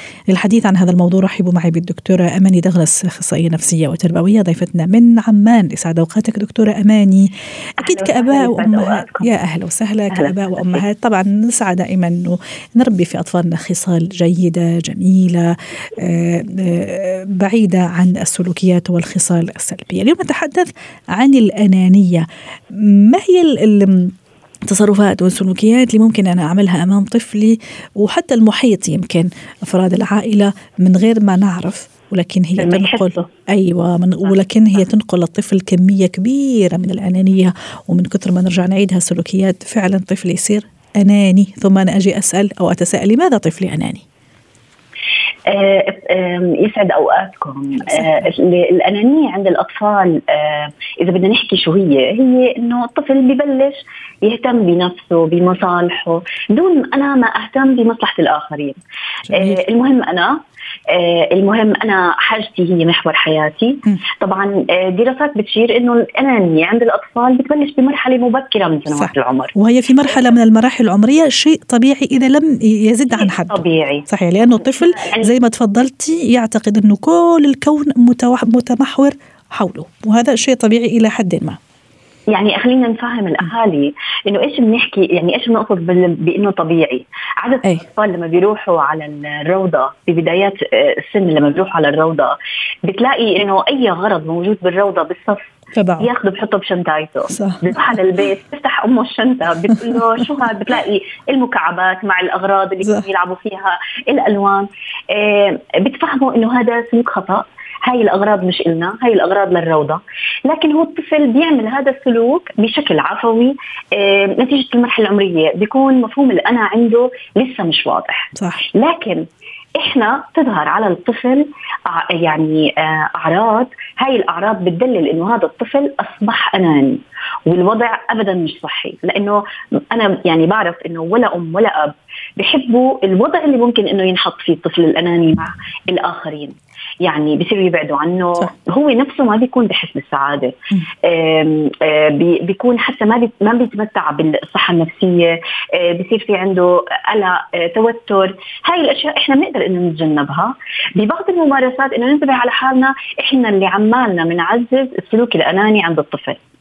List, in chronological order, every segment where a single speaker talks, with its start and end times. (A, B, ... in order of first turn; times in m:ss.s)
0:00.3-0:24.1 A
0:07.8-0:09.3 B
0:10.1-0:10.8 B
0:24.7-0:44.0 A
0:32.6-0:33.3 B
0:45.5-0:58.8 B
0:59.3-0:59.6 A
0:59.3-1:09.6 B
1:08.9-1:21.6 A
1:10.1-1:10.3 B
1:13.1-1:15.3 B
1:22.3-1:59.2 B
1:35.7-1:36.1 A
1:37.3-1:38.0 A
1:58.4-1:58.6 A
1:59.8-2:36.4 B